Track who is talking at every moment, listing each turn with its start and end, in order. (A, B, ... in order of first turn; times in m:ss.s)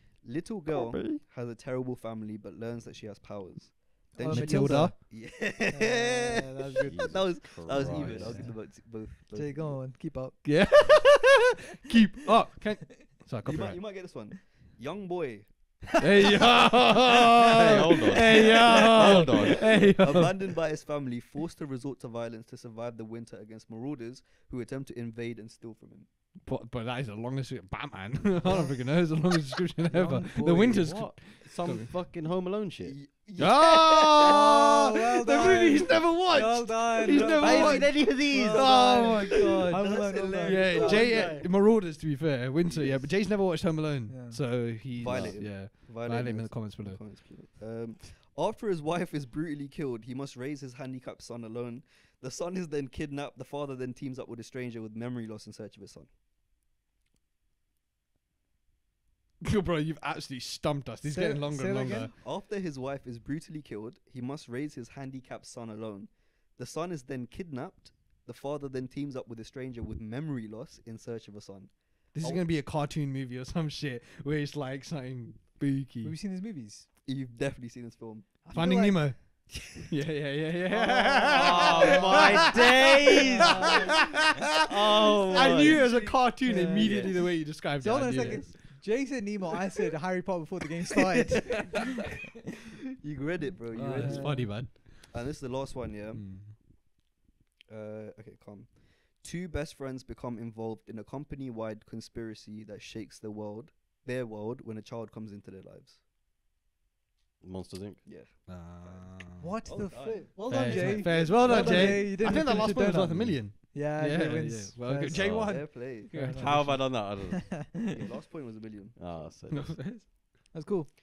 0:00.2-0:09.8 A
0:00.7-0:01.2 B
0:04.2-0:10.6 C
0:04.2-0:05.0 D
0:06.9-0:08.5 B
0:07.8-0:08.5 D
0:10.4-0:13.9 D
0:13.4-0:16.0 A
0:16.0-0:20.5 D
0:17.6-0:20.2 B
0:18.3-0:26.1 A
0:26.4-0:31.9 D
0:28.4-0:28.7 C
0:29.9-0:31.0 C
0:30.6-0:33.1 B
0:32.8-0:34.5 A
0:33.4-0:47.2 D
0:34.2-0:41.0 C
0:35.4-0:35.8 A
0:37.0-0:41.5 A
0:37.4-0:39.7 B
0:40.7-0:41.5 B
0:42.6-0:43.1 A
0:44.1-0:44.7 C
0:45.0-0:56.1 A
0:45.0-0:45.6 B
0:59.4-1:02.1 D
1:01.0-1:02.1 C
1:02.1-1:12.5 A
1:12.1-1:16.2 D
1:16.0-1:16.9 C
1:17.0-1:18.5 A
1:18.4-1:19.8 C
1:18.5-1:23.1 D
1:20.6-1:24.0 C
1:21.4-1:23.7 B
1:23.4-1:24.0 A
1:24.6-1:26.1 B
1:25.3-1:28.8 D
1:25.3-1:27.2 A
1:26.4-1:31.9 C
1:28.2-1:28.5 A
1:33.0-1:36.4 A
1:33.7-1:34.5 C
1:34.0-1:35.4 D
1:36.1-1:36.6 D
1:37.7-1:46.0 A
1:47.4-1:48.1 B
1:48.0-1:49.1 A
1:48.5-1:56.9 D
1:49.4-1:57.6 C
1:49.7-1:52.1 A
1:51.4-1:53.4 B
1:55.1-1:57.8 B
1:55.3-1:56.1 A
1:57.9-1:59.4 A
1:59.0-1:59.8 B
1:59.5-2:00.1 D
2:00.5-2:00.9 C